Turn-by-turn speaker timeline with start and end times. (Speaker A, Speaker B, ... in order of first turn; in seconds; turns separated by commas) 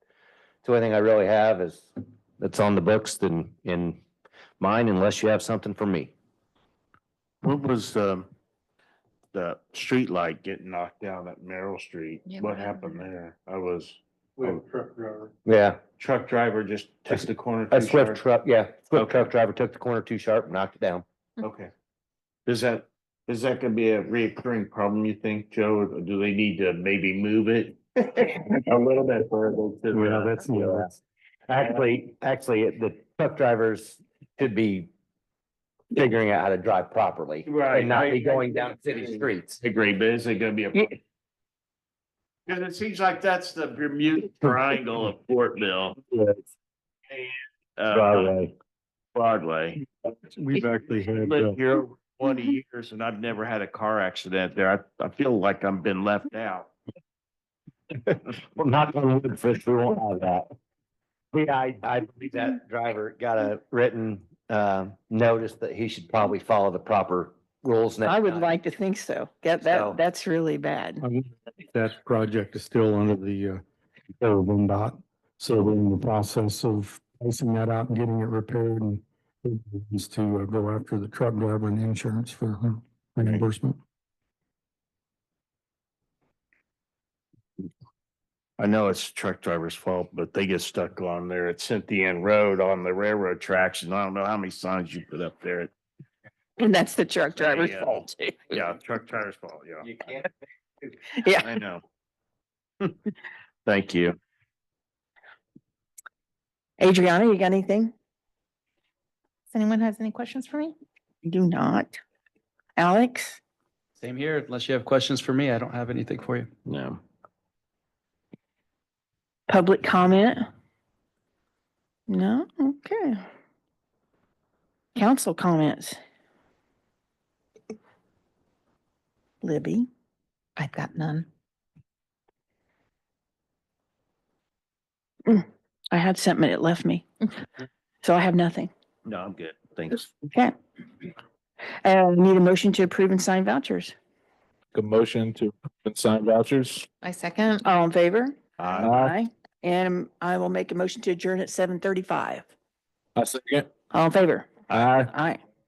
Speaker A: 0.6-4.0, Speaker A: 4.6-6.1, Speaker B: 7.4-8.3, Speaker B: 9.3-14.6, Speaker C: 12.3-12.9, Speaker D: 14.4-15.3, Speaker A: 15.4-15.8, Speaker B: 16.0-18.2, Speaker A: 17.1-21.0, Speaker B: 18.9-19.3, Speaker B: 21.4-21.7, Speaker B: 22.4-30.4, Speaker D: 29.9-30.9, Speaker A: 30.4-31.0, Speaker A: 31.5-34.9, Speaker A: 35.9-39.6, Speaker B: 37.4-38.4, Speaker B: 39.1-40.9, Speaker B: 42.5-46.0, Speaker B: 47.1-48.3, Speaker A: 47.9-48.5, Speaker B: 49.1-49.8, Speaker D: 50.3-51.6, Speaker B: 51.1-56.7, Speaker A: 58.0-60.5, Speaker A: 61.3-68.5, Speaker E: 68.0-71.0, Speaker A: 69.6-70.0, Speaker D: 71.0-73.6, Speaker D: 74.2-83.8, Speaker B: 88.6-95.7, Speaker E: 96.6-98.5, Speaker B: 97.4-99.9, Speaker E: 101.2-101.5, Speaker B: 101.4-101.8, Speaker B: 103.7-104.2, Speaker E: 106.8-107.9, Speaker C: 109.5-110.7, Speaker E: 111.2-112.0, Speaker E: 112.8-113.4, Speaker F: 114.0-116.5, Speaker B: 116.7-117.0, Speaker E: 119.5-120.4, Speaker E: 122.1-123.2, Speaker E: 125.0-126.0, Speaker E: 129.4-129.9, Speaker C: 130.6-131.2, Speaker E: 135.3-137.0, Speaker E: 138.0-138.7, Speaker B: 139.1-140.0, Speaker E: 141.8-143.9, Speaker G: 144.7-146.9, Speaker C: 147.0-147.6, Speaker E: 147.6-152.5, Speaker G: 148.8-149.1, Speaker G: 153.2-153.7, Speaker E: 153.9-155.4, Speaker G: 154.7-155.1